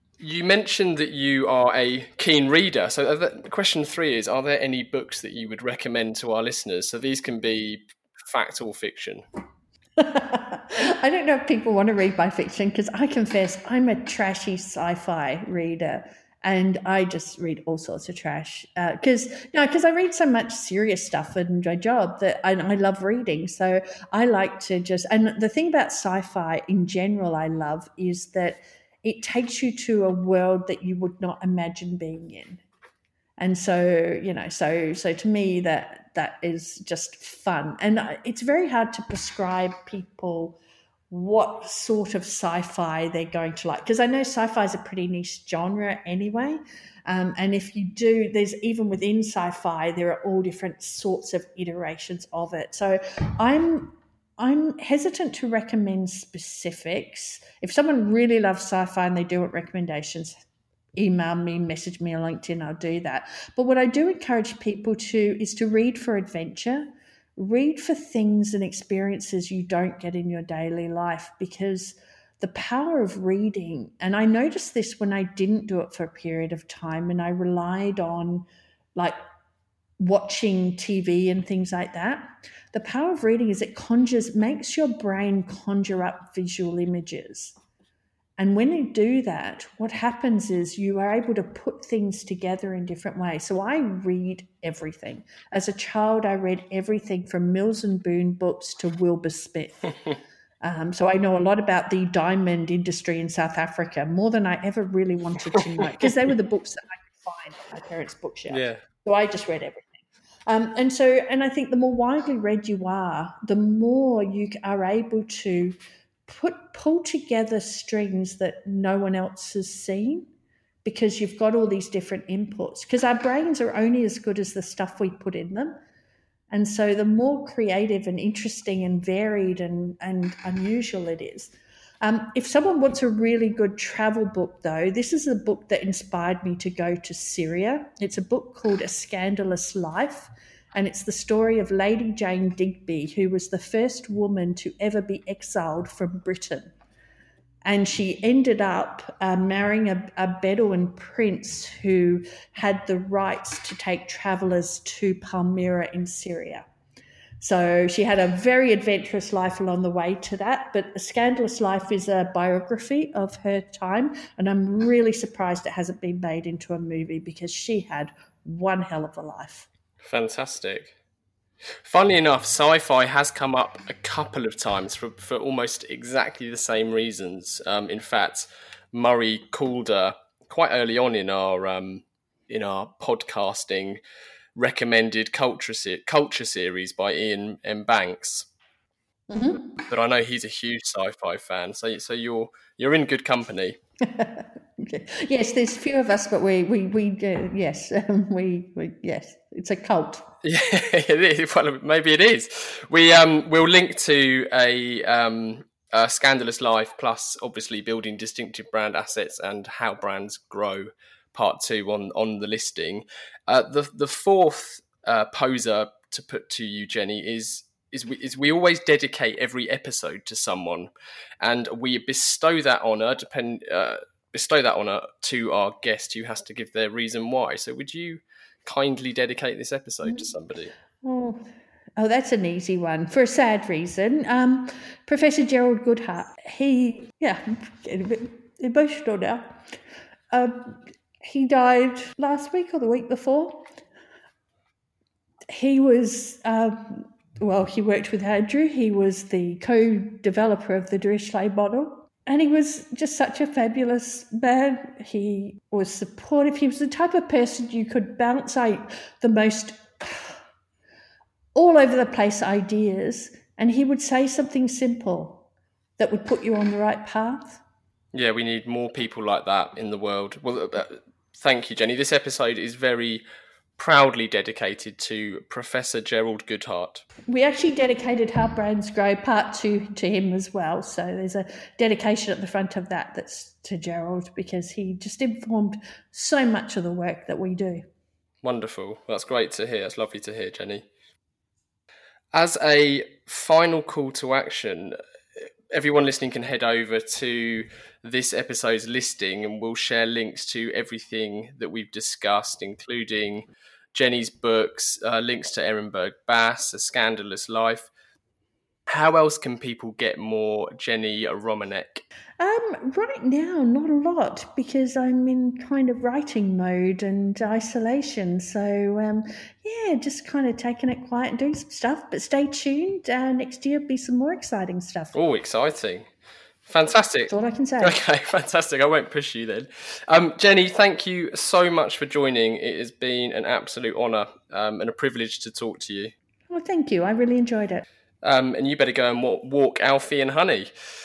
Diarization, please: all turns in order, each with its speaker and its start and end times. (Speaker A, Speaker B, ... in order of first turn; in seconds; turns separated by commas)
Speaker A: 0.2-9.2, Speaker B: 10.0-32.6, Speaker B: 33.4-40.6, Speaker B: 41.1-60.4, Speaker B: 61.0-78.5, Speaker B: 80.0-87.5, Speaker B: 88.4-99.9, Speaker B: 100.6-120.3, Speaker A: 108.5-108.8, Speaker B: 120.8-125.8, Speaker B: 126.5-146.7, Speaker B: 147.7-156.7, Speaker B: 157.4-169.7, Speaker A: 170.0-170.9, Speaker A: 171.8-184.0, Speaker A: 184.6-188.5, Speaker B: 189.3-189.7, Speaker A: 189.9-193.8, Speaker B: 194.0-200.3, Speaker A: 200.4-230.7, Speaker B: 231.0-239.6, Speaker B: 240.3-243.7, Speaker B: 245.5-260.4, Speaker B: 261.6-265.5, Speaker B: 266.0-267.6, Speaker A: 268.1-273.2, Speaker A: 273.8-277.1, Speaker B: 277.3-287.9, Speaker A: 288.4-290.9, Speaker A: 292.3-307.9, Speaker A: 308.9-312.0, Speaker B: 312.4-325.2, Speaker A: 325.1-326.1, Speaker A: 326.6-336.1, Speaker B: 327.3-328.0, Speaker B: 336.5-337.9, Speaker A: 338.2-340.7